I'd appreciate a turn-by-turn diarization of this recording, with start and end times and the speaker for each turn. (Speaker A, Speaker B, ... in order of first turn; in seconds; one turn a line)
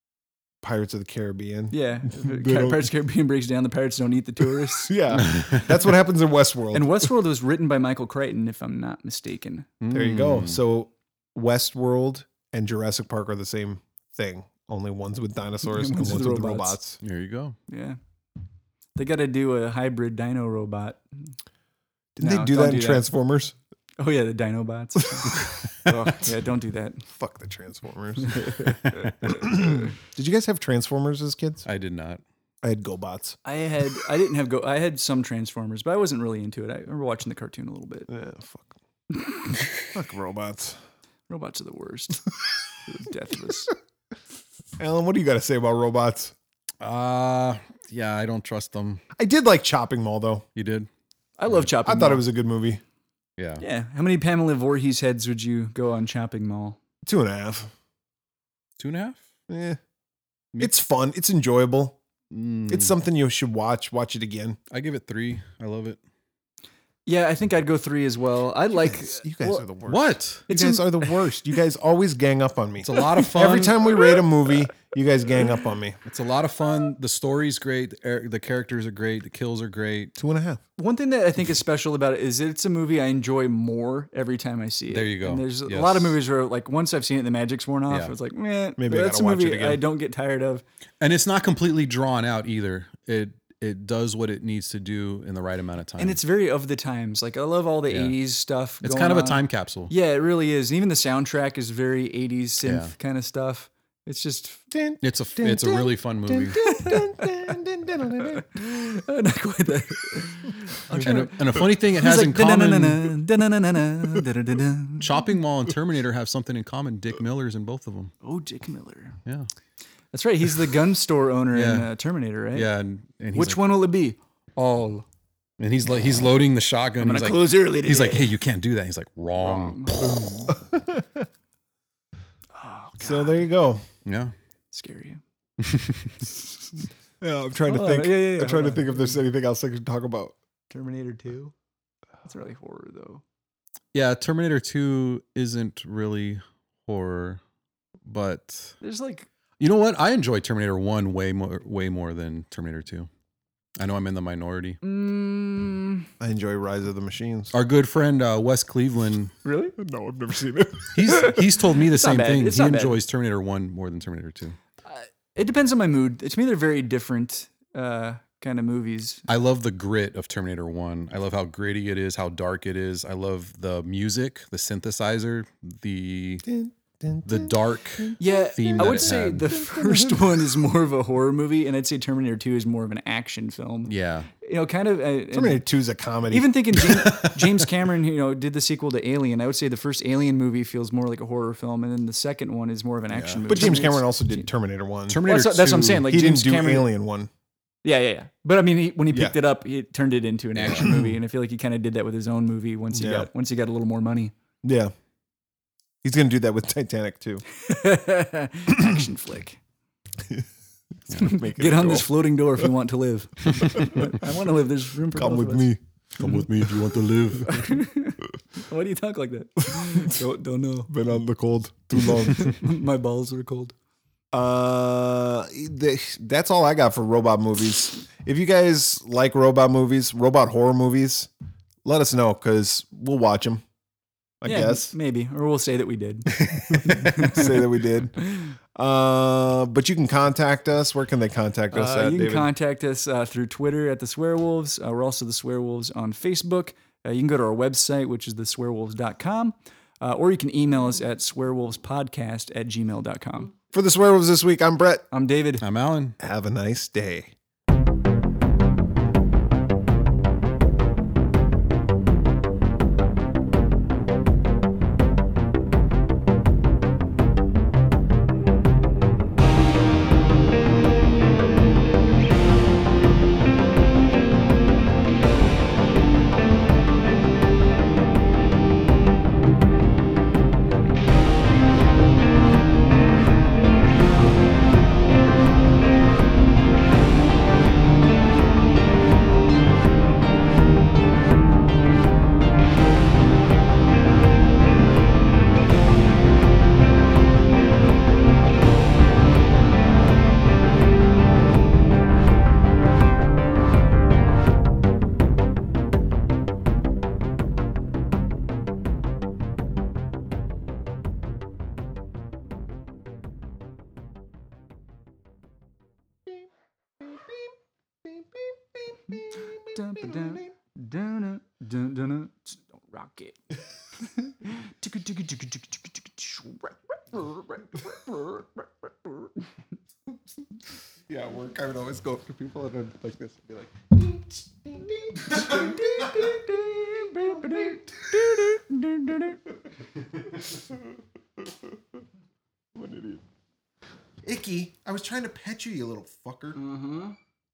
Speaker A: 0.6-2.9
Speaker B: 1.7-5.0
Speaker A: 4.6-7.1
Speaker C: 5.2-5.7
Speaker B: 6.7-9.7
Speaker C: 9.8-10.6
Speaker A: 9.9-17.0
Speaker B: 15.7-16.8
Speaker C: 17.0-17.6
Speaker B: 17.7-18.0
Speaker B: 18.9-21.0
Speaker A: 22.1-23.5
Speaker B: 22.2-23.1
Speaker B: 24.0-27.1
Speaker A: 27.1-28.7
Speaker B: 28.2-29.9
Speaker C: 28.9-29.1
Speaker A: 29.2-31.6
Speaker C: 31.6-32.2
Speaker A: 32.6-33.4
Speaker B: 33.4-38.1
Speaker A: 38.1-38.7
Speaker B: 39.2-39.6
Speaker A: 39.8-40.8
Speaker B: 41.3-42.3
Speaker B: 42.9-43.7
Speaker A: 44.8-46.3
Speaker C: 46.8-49.0
Speaker A: 49.1-50.5
Speaker C: 50.5-50.9
Speaker B: 51.4-52.2
Speaker A: 51.9-52.8
Speaker C: 53.4-53.6
Speaker B: 53.6-56.8
Speaker A: 57.0-57.7
Speaker C: 58.8-59.2
Speaker A: 59.5-59.8
Speaker A: 60.6-62.0
Speaker C: 62.3-62.9
Speaker A: 62.7-64.6
Speaker C: 64.7-66.0
Speaker B: 67.0-69.7
Speaker A: 68.8-76.0
Speaker C: 69.9-70.4
Speaker B: 70.5-71.2
Speaker C: 72.8-73.8
Speaker C: 76.0-80.1
Speaker A: 80.2-80.6
Speaker B: 80.8-90.6
Speaker C: 84.9-86.2
Speaker A: 88.8-89.8
Speaker C: 91.0-96.2
Speaker B: 96.0-104.7
Speaker C: 97.9-98.2
Speaker C: 98.8-99.9
Speaker C: 102.6-102.9
Speaker A: 104.7-108.7
Speaker C: 105.0-106.7
Speaker B: 106.5-107.6
Speaker B: 108.2-115.2
Speaker C: 110.9-113.1
Speaker C: 115.0-118.1
Speaker B: 118.2-119.2
Speaker B: 120.1-122.7
Speaker C: 121.5-121.9
Speaker C: 122.5-123.8
Speaker B: 123.3-125.0
Speaker C: 125.6-130.5
Speaker B: 127.0-128.3
Speaker B: 129.4-130.5
Speaker A: 130.6-131.2
Speaker B: 132.5-133.4
Speaker A: 133.0-133.8
Speaker C: 134.0-134.3
Speaker B: 134.7-135.2
Speaker C: 135.6-136.2
Speaker A: 137.2-140.3
Speaker B: 137.7-139.2
Speaker B: 140.7-141.5
Speaker B: 142.2-143.2
Speaker C: 143.9-147.4
Speaker C: 148.1-148.7
Speaker B: 148.8-149.3
Speaker C: 149.6-153.1
Speaker C: 153.8-154.8
Speaker B: 154.8-156.1
Speaker A: 156.2-157.5
Speaker C: 157.5-159.3
Speaker B: 159.4-159.8
Speaker A: 159.8-161.1
Speaker C: 160.9-164.6
Speaker B: 161.0-163.0
Speaker B: 164.9-169.2
Speaker C: 169.3-176.4
Speaker A: 176.4-180.3
Speaker C: 177.2-179.5
Speaker B: 178.2-185.6
Speaker C: 183.9-184.3
Speaker A: 185.3-186.5
Speaker B: 186.3-194.5
Speaker C: 186.8-187.6
Speaker C: 193.1-193.8
Speaker A: 193.5-195.2
Speaker C: 195.1-196.1
Speaker B: 195.2-196.9
Speaker A: 196.0-197.3
Speaker B: 197.8-204.3
Speaker A: 199.1-199.3
Speaker C: 200.6-201.1
Speaker A: 202.9-203.3
Speaker A: 204.6-204.9
Speaker A: 206.0-207.4
Speaker B: 207.5-209.6
Speaker A: 211.1-212.1
Speaker B: 211.1-215.7
Speaker A: 215.1-215.8
Speaker C: 216.2-217.6
Speaker B: 217.4-220.9
Speaker A: 219.7-220.2
Speaker A: 220.9-222.6
Speaker B: 222.0-223.7
Speaker A: 224.3-231.3
Speaker A: 231.8-233.6
Speaker A: 234.4-234.9
Speaker B: 234.4-237.6
Speaker A: 236.4-242.5
Speaker B: 241.7-253.5
Speaker A: 253.7-255.1
Speaker B: 255.1-255.6
Speaker C: 255.6-256.1
Speaker A: 256.2-257.3
Speaker A: 317.0-317.5
Speaker A: 318.0-320.5
Speaker B: 319.1-323.4
Speaker B: 324.1-329.1
Speaker A: 331.1-336.6
Speaker B: 335.2-339.4
Speaker A: 337.1-338.4
Speaker A: 342.8-343.2
Speaker A: 344.2-346.6
Speaker B: 346.5-347.1